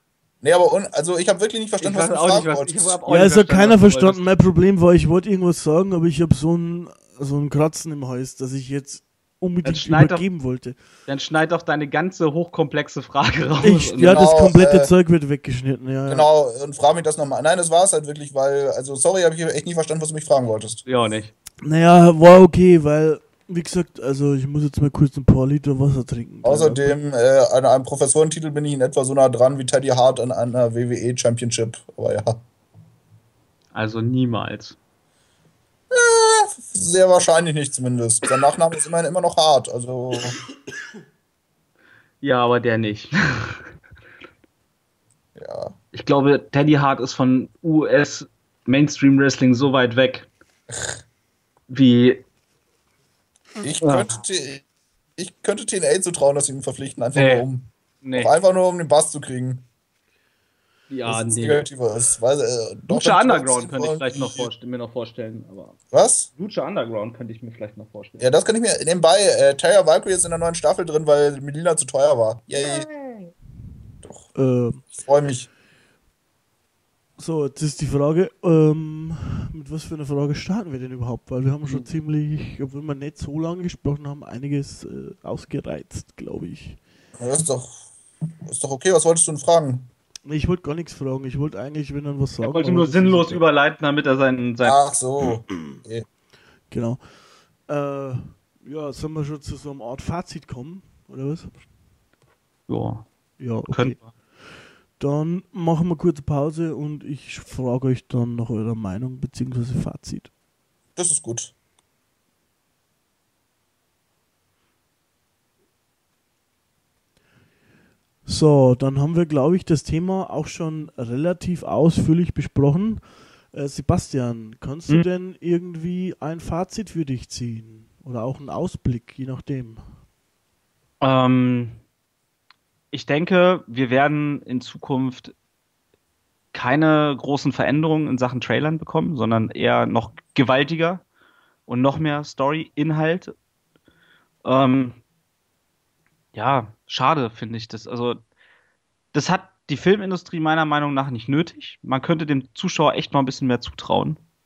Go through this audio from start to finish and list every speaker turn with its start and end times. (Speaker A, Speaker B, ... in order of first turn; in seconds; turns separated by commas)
Speaker A: 0.4-3.0, Speaker B: 1.8-4.2, Speaker C: 3.1-10.8, Speaker B: 9.6-10.3, Speaker B: 11.1-14.3, Speaker C: 13.6-16.3, Speaker A: 14.0-14.9, Speaker A: 16.1-20.8, Speaker B: 20.9-21.3, Speaker C: 21.6-26.9, Speaker A: 26.4-32.4, Speaker B: 33.7-34.8, Speaker A: 35.9-40.4, Speaker B: 42.2-43.6, Speaker A: 45.4-45.8, Speaker B: 45.9-50.3, Speaker A: 50.7-51.0, Speaker B: 51.7-52.2, Speaker A: 53.6-54.6, Speaker B: 53.8-54.2, Speaker A: 55.2-59.6, Speaker B: 57.1-57.5, Speaker B: 58.0-58.3, Speaker B: 60.9-61.7, Speaker A: 61.0-64.5, Speaker B: 62.9-65.8, Speaker A: 65.9-66.3, Speaker B: 66.4-68.3, Speaker A: 68.2-72.9, Speaker B: 72.5-73.3, Speaker A: 74.0-74.3, Speaker C: 74.3-74.9, Speaker A: 75.0-75.5, Speaker C: 77.2-86.8, Speaker A: 87.2-87.8, Speaker A: 88.4-89.9, Speaker C: 90.3-93.4, Speaker B: 92.4-94.8, Speaker A: 94.6-96.1, Speaker C: 96.7-97.0, Speaker C: 97.7-101.6, Speaker B: 102.7-103.1, Speaker C: 103.4-110.3, Speaker B: 103.7-104.1, Speaker A: 111.0-111.5, Speaker C: 118.2-129.9, Speaker B: 131.0-131.8, Speaker B: 132.9-135.3, Speaker B: 136.5-141.0, Speaker B: 141.7-143.3, Speaker B: 144.4-145.0, Speaker B: 146.3-148.2, Speaker B: 149.1-154.2